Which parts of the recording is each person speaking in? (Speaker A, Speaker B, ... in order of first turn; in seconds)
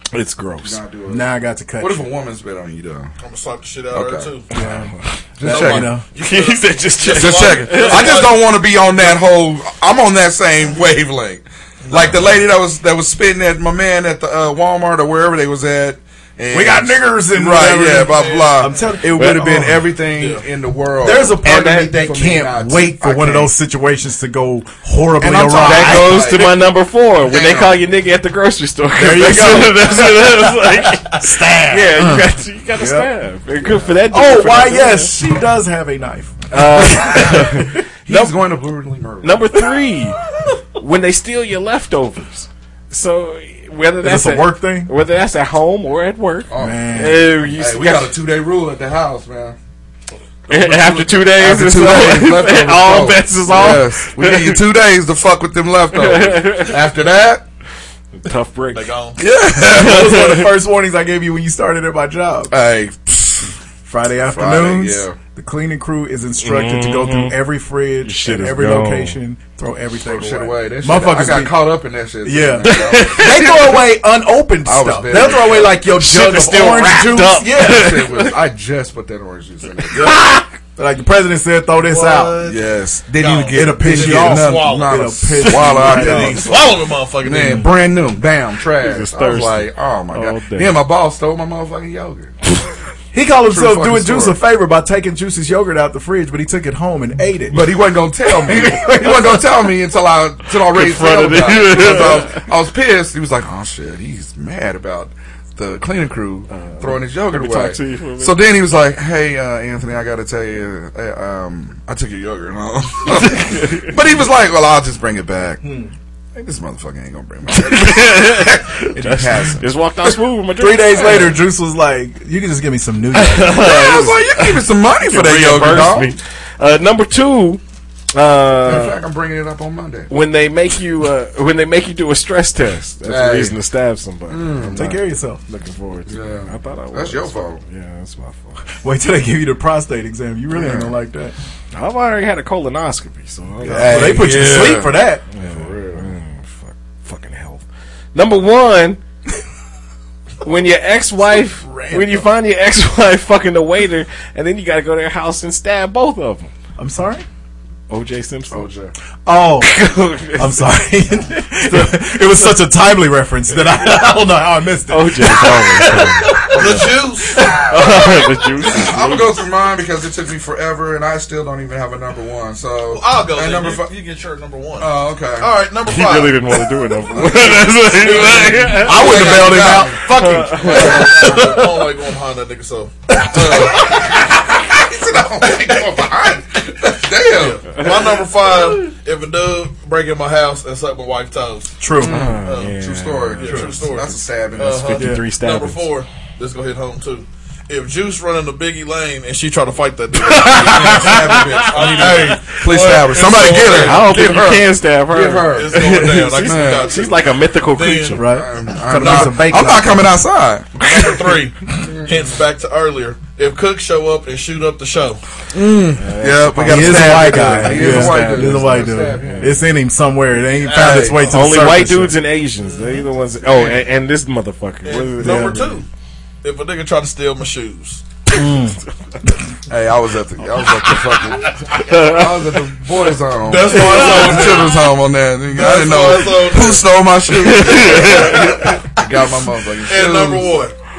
Speaker A: 0.1-0.8, 4.6-5.1, 6.2-8.2, 25.5-35.1, 36.5-38.2, 39.2-40.2, 40.8-48.1, 50.5-54.6, 55.9-56.8, 58.2-58.9, 59.7-60.5, 66.4-67.4, 68.0-69.2, 72.6-73.8, 75.9-78.3, 80.0-80.5, 88.8-90.8, 98.7-99.1, 100.7-102.4, 106.5-108.4, 113.5-113.9, 117.5-121.4, 123.1-127.6, 128.1-129.0, 130.1-138.7, 141.7-144.5, 145.3-149.0, 150.4-156.5, 157.9-158.7, 159.6-160.7, 161.7-162.5, 164.9-166.9, 167.7-169.3, 175.8-181.0, 192.0-193.7, 194.7-195.9, 200.2-202.5, 203.6-208.2, 216.0-219.6, 221.2-225.7, 231.8-232.2, 233.7-234.7, 237.4-238.7
Speaker B: 0.6-3.1, 3.9-4.4, 5.4-6.0, 7.1-23.5, 25.2-27.8, 33.6-33.9, 36.8-37.4, 38.0-39.7, 46.5-49.6, 50.5-57.4, 59.2-60.4, 62.5-63.5, 64.2-65.2, 70.0-73.6, 74.6-75.8, 77.4-80.3, 82.4-92.4, 93.4-94.4, 97.5-115.7, 116.3-119.7, 123.5-126.1, 128.6-130.1, 133.1-133.6, 134.3-134.9, 136.1-137.6, 140.5-140.9, 143.6-146.1, 158.5-158.9, 166.6-166.9, 167.7-173.9, 174.8-175.6, 177.1-181.7, 183.2-187.8, 192.0-195.1, 200.4-207.0, 208.3-212.2, 215.5-219.7, 220.7-221.2, 229.7-240.6
Speaker C: 1.1-2.1, 4.5-4.9, 5.5-6.0, 16.5-19.9, 21.0-26.4, 28.9-32.2, 32.7-33.1, 34.1-38.2, 44.0-44.9, 46.6-47.3, 59.5-62.5, 63.9-71.6, 72.2-78.1, 80.8-82.5, 83.5-86.5, 93.1-97.7, 98.4-99.4, 115.6-115.9, 120.6-123.7, 134.7-135.4, 138.8-141.3, 143.7-145.2, 151.6-152.2, 156.8-157.2, 159.2-159.8, 160.4-167.5, 178.8-181.7, 191.8-192.2, 195.0-195.2, 208.1-210.2, 216.7-222.2, 225.2-225.7, 228.3-228.8
Speaker D: 3.2-4.5, 5.4-9.2, 11.8-12.4, 18.0-19.2, 20.1-20.5, 58.7-59.2, 81.8-87.7, 166.5-167.5, 172.9-176.6, 180.7-183.9, 187.3-191.8, 192.4-192.8, 193.3-204.4, 205.5-208.3, 209.0-209.3, 210.8-215.2, 220.6-221.4, 222.6-223.8, 224.8-225.8, 226.4-228.0, 233.4-234.8, 235.5-236.9, 237.9-238.7, 239.8-240.7